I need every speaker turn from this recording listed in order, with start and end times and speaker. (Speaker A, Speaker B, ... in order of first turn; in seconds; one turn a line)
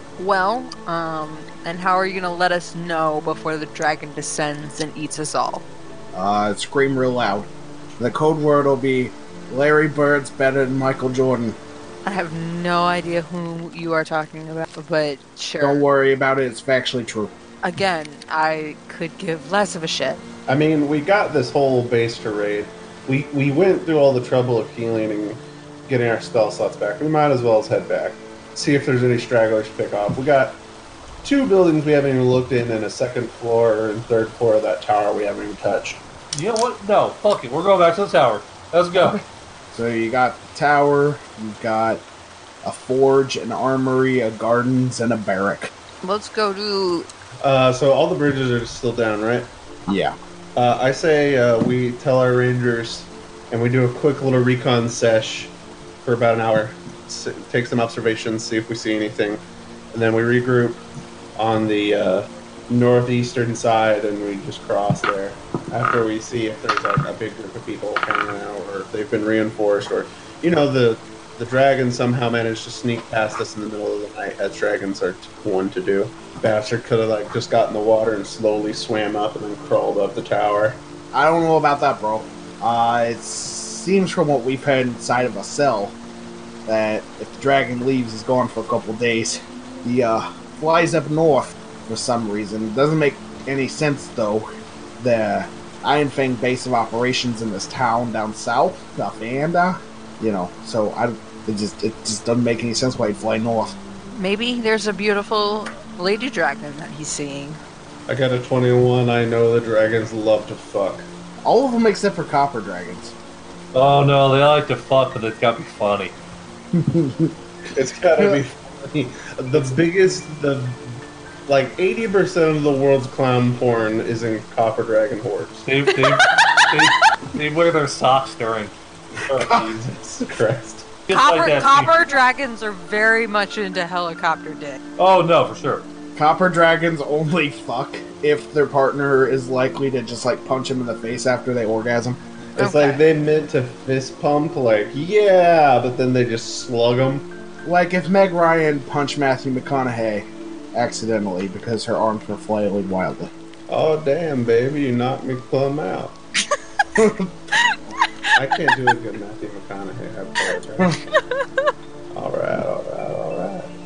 Speaker A: 0.2-5.6
Speaker B: 6.1-11.6
Speaker A: 12.1-15.8
Speaker B: 15.6-17.3
Speaker A: 17.6-20.2
Speaker C: 20.5-30.6
Speaker C: 31.2-36.0
Speaker D: 36.3-39.2
Speaker B: 39.7-42.0
Speaker B: 42.6-45.7
Speaker A: 46.0-47.1
Speaker C: 47.4-49.5
Speaker B: 49.9-50.2
Speaker C: 50.6-59.4
Speaker C: 59.9-60.8
Speaker C: 61.4-80.8
Speaker B: 81.1-86.0
Speaker B: 86.7-94.5
Speaker B: 95.0-103.8
Speaker A: 104.2-107.6
Speaker C: 108.1-111.1
Speaker B: 111.4-113.2
Speaker D: 113.7-116.2
Speaker B: 116.8-117.3
Speaker C: 117.7-120.9
Speaker C: 121.5-125.6
Speaker D: 125.7-129.7
Speaker A: 126.0-126.8
Speaker C: 129.4-130.9
Speaker D: 131.1-131.9
Speaker A: 131.1-134.8
Speaker D: 135.0-135.9
Speaker B: 136.2-142.2
Speaker A: 142.6-143.0
Speaker C: 142.6-147.3
Speaker B: 147.6-153.3
Speaker C: 153.7-156.2
Speaker B: 157.0-157.3
Speaker C: 158.3-161.0
Speaker A: 161.2-161.4
Speaker C: 162.1-163.7